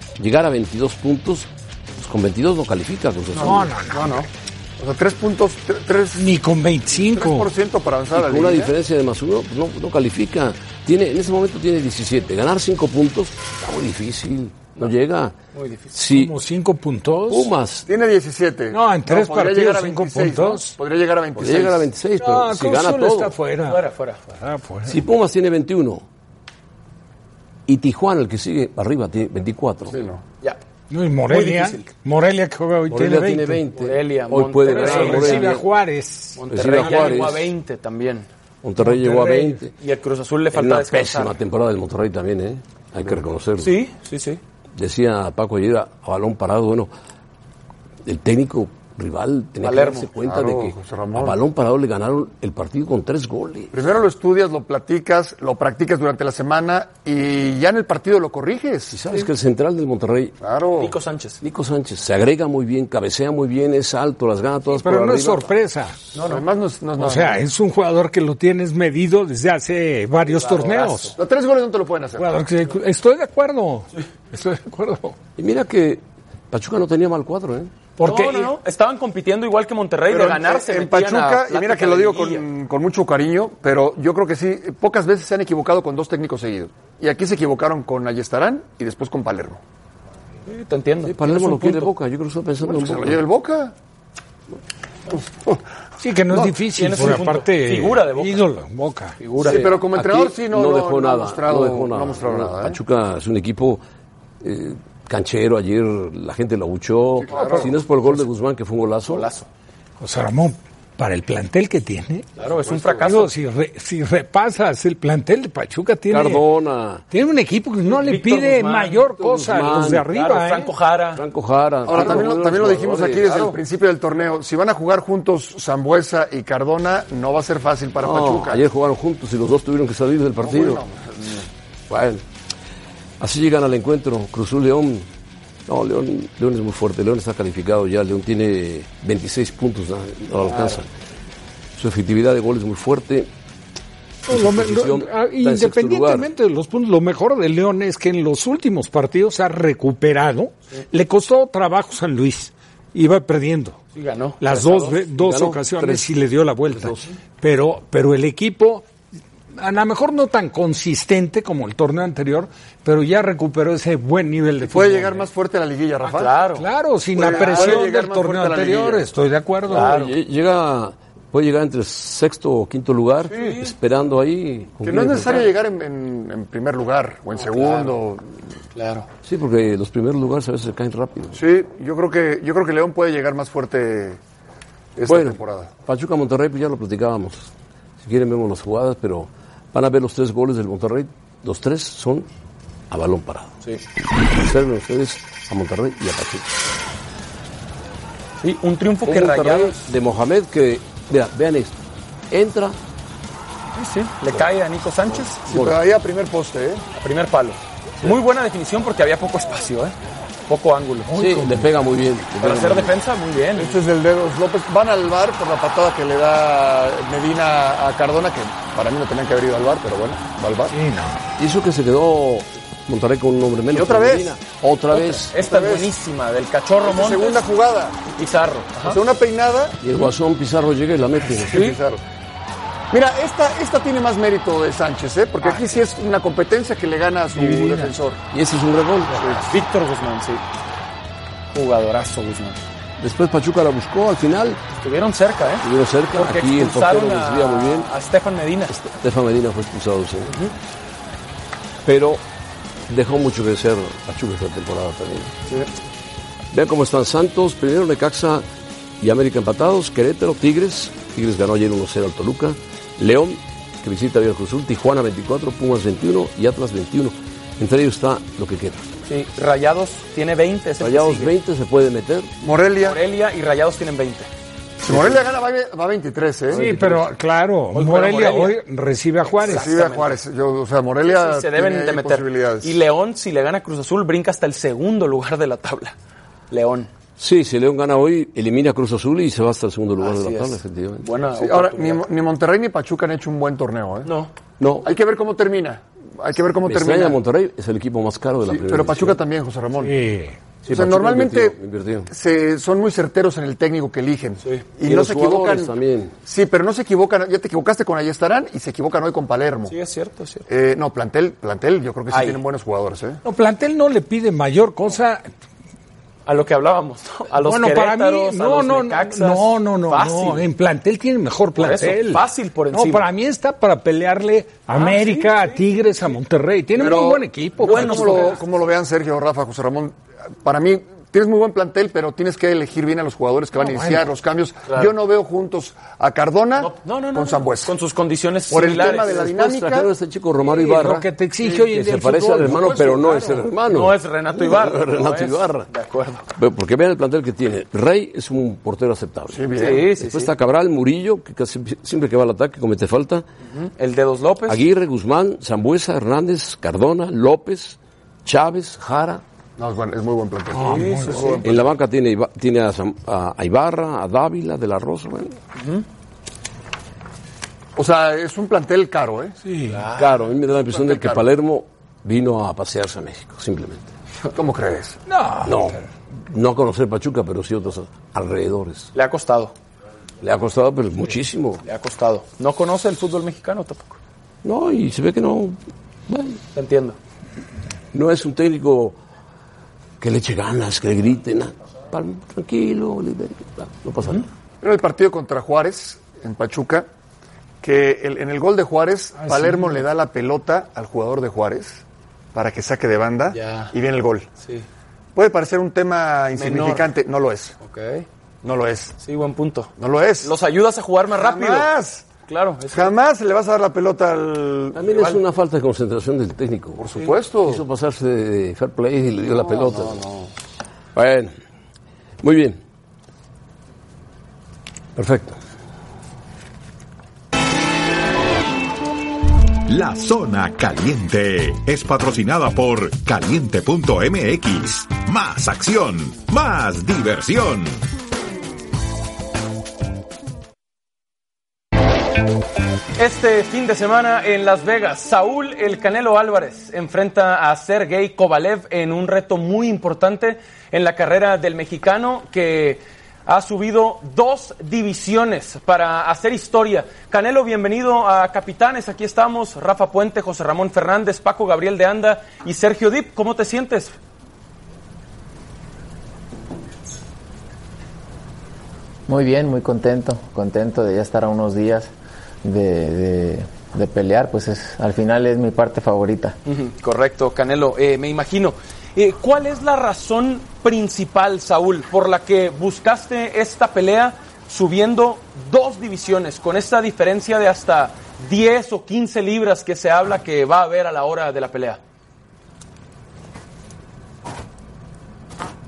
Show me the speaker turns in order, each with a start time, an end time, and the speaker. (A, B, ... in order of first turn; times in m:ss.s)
0:00.2-0:03.7 A
0:03.4-0:04.3 B
0:03.4-0:04.1 C
0:04.8-0:06.3 B
0:06.1-0:07.5 C
0:07.0-0:08.7 B
0:08.1-0:15.3 A
0:15.5-0:15.9 D
0:15.9-0:16.3 A
0:16.1-0:17.5 C
0:17.3-0:17.9 A
0:17.9-0:21.9 B
0:18.7-0:20.8 C
0:21.4-0:23.4 A
0:22.2-0:25.0 C
0:23.6-0:24.2 D
0:24.8-0:26.0 A
0:27.7-0:30.0 A
0:29.9-0:30.2 B
0:30.9-0:33.6 C
0:31.3-0:31.9 D
0:32.9-0:35.6 A
0:33.8-0:35.6 D
0:34.6-0:37.2 C
0:36.4-0:38.3 D
0:36.5-0:37.5 A
0:38.6-0:39.7 A
0:38.8-0:39.6 C
0:39.8-0:41.4 D
0:40.5-0:43.8 A
0:43.6-0:44.4 D
0:44.8-0:46.9 A
0:48.0-0:53.8 A
0:49.6-0:50.1 D
0:50.2-0:51.4 B
0:53.7-0:59.0 B
0:58.9-1:00.4 A
1:00.4-1:00.9 B
1:00.8-1:01.4 D
1:01.4-1:05.5 A
1:04.7-1:06.0 C
1:06.1-1:06.4 D
1:06.2-1:07.4 B
1:07.0-1:11.1 C
1:10.2-1:11.2 D
1:11.2-1:12.3 B
1:12.2-1:15.2 C
1:15.4-1:17.7 A
1:18.0-1:18.5 C
1:18.0-1:22.4 D
1:20.1-1:29.6 B
1:30.5-1:31.7 D
1:31.0-1:33.2 A
1:32.6-1:33.7 B
1:35.1-1:35.6 B
1:36.0-1:39.2 C
1:36.3-1:36.6 B
1:36.7-1:38.5 D
1:39.2-1:39.8 D
1:39.4-1:43.8 A
1:39.4-1:42.8 B
1:44.4-1:49.3 A
1:47.2-1:47.7 B
1:47.3-1:47.6 C
1:49.1-1:49.5 D
1:50.0-1:52.2 C
1:52.4-1:53.3 D
1:52.4-1:53.1 B
1:53.0-1:56.4 C
1:56.1-1:57.0 A
1:57.1-2:00.7 C
1:57.8-1:59.0 D
1:59.1-2:00.1 A
2:00.1-2:01.2 D
2:01.1-2:03.6 A
2:01.8-2:08.6 B
2:08.0-2:10.8 A
2:10.4-2:11.5 B
2:11.9-2:12.2 A
2:13.2-2:15.1 A
2:15.7-2:20.9 A
2:21.8-2:23.3 A
2:24.3-2:26.3 A
2:24.3-2:33.8 C
2:33.9-2:35.0 D
2:34.4-2:38.8 C
2:35.2-2:36.1 A
2:36.7-2:37.1 A
2:39.5-2:45.2 C
2:44.6-2:46.4 B
2:46.0-2:46.6 D
2:46.6-2:49.9 C
2:47.2-2:49.1 B
2:47.3-2:47.8 D
2:49.7-2:50.1 D
2:49.7-2:55.5 A
2:53.3-2:53.7 D
2:54.8-2:58.2 B
2:57.4-2:57.9 D
2:58.7-2:59.1 D
2:59.2-3:01.4 A
3:01.3-3:04.2 B
3:05.0-3:05.7 B
3:05.0-3:07.5 A
3:08.0-3:12.3 A
3:12.9-3:13.6 A
3:14.4-3:16.6 A
3:18.4-3:19.8 D
3:19.0-3:21.8 A
3:22.3-3:22.8 A
3:23.8-3:25.4 D
3:25.4-3:25.8 A
3:25.5-3:26.8 B
3:26.9-3:29.9 D
3:30.5-3:31.1 D
3:31.1-3:31.7 C
3:31.1-3:32.9 A
3:32.4-3:33.8 D
3:33.6-3:40.7 B
3:40.7-3:41.2 C
3:41.4-3:45.3 A
3:43.7-3:44.3 B
3:44.9-3:47.4 D
3:45.3-3:45.9 B
3:46.8-3:48.0 B
3:48.1-3:49.0 D
3:48.8-3:49.8 B
3:49.8-3:51.7 A
3:51.4-3:52.0 B
3:51.5-3:51.8 D
3:52.9-3:58.2 B
3:55.4-3:55.8 D
3:57.4-3:57.9 C
3:58.3-3:59.2 A
3:59.2-3:59.4 B
3:59.5-4:00.4 D
4:01.5-4:02.6 D
4:03.0-4:04.6 A
4:04.8-4:08.7 D
4:05.6-4:07.9 A
4:08.7-4:10.4 A
4:10.3-4:10.5 D
4:11.8-4:12.2 A
4:12.9-4:15.3 A
4:16.5-4:18.4 A
4:19.0-4:28.9 A
4:29.1-4:31.3 D
4:30.8-4:32.3 A
4:32.4-4:33.0 B
4:32.8-4:34.3 D
4:34.8-4:36.6 B
4:34.8-4:35.2 A
4:36.5-4:37.1 A
4:36.5-4:39.7 C
4:37.7-4:38.6 D
4:39.4-4:40.2 D
4:39.4-4:42.7 B
4:41.0-4:45.9 D
4:46.5-4:46.9 D
4:47.2-4:51.0 A
4:50.0-4:52.0 D
4:51.4-4:54.1 B
4:54.0-4:54.3 D
4:54.6-4:54.9 A
4:54.8-4:57.2 B
4:56.6-4:59.2 A
4:58.4-5:00.0 B
4:59.8-5:00.4 C
5:00.6-5:02.1 A
5:00.7-5:01.6 B
5:02.1-5:05.7 B
5:04.8-5:06.1 A
5:06.2-5:09.7 B
5:09.7-5:10.5 D
5:10.5-5:13.2 B
5:12.1-5:12.4 D
5:13.2-5:15.2 C
5:16.2-5:20.4 D
5:17.4-5:28.4 C
5:21.6-5:23.1 D
5:24.7-5:25.6 D
5:26.8-5:37.7 B
5:27.6-5:28.4 D
5:33.6-5:34.0 C
5:34.7-5:34.9 D
5:36.6-5:39.2 D
5:38.5-5:39.9 B
5:38.5-5:45.7 A
5:40.5-5:43.4 C
5:43.7-5:46.2 D
5:46.4-5:53.2 A
5:49.3-5:49.9 B
5:49.5-5:50.3 D
5:53.5-5:54.6 D
5:54.5-5:59.2 A
5:59.6-6:01.6 B
6:00.5-6:01.3 C
6:00.6-6:01.4 D
6:01.4-6:05.4 A
6:05.6-6:05.8 D
6:07.8-6:09.4 B
6:09.4-6:09.8 C
6:09.7-6:10.1 D
6:09.9-6:13.9 A
6:10.7-6:11.2 B
6:14.3-6:15.0 B
6:15.1-6:15.8 C
6:15.4-6:18.9 A
6:18.9-6:19.5 D
6:20.2-6:21.6 A
6:21.6-6:24.0 D
6:24.4-6:26.4 A
6:26.5-6:27.0 D
6:27.9-6:29.0 A
6:30.0-6:34.3 A
6:34.6-6:36.9 B
6:37.6-6:41.8 B
6:39.2-6:39.8 C
6:42.3-6:44.3 B
6:43.3-6:43.7 D
6:45.1-6:47.6 B
6:46.4-6:46.9 D
6:47.6-6:48.0 D
6:48.4-6:48.9 B
6:49.0-6:51.7 D
6:49.8-6:50.3 B
6:51.1-6:52.1 B
6:52.3-6:52.9 D
6:52.7-6:54.8 B
6:54.7-6:56.9 A
6:54.9-6:55.2 D
6:56.8-6:57.6 B
6:57.4-7:00.0 A
6:59.4-7:00.3 B
7:00.9-7:01.3 A
7:02.2-7:02.6 A
7:05.0-7:05.4 A
7:09.6-7:17.8 E
7:23.0-7:43.9 D
7:49.1-7:51.9 F
7:52.4-7:56.4 F
7:56.4-8:11.8 D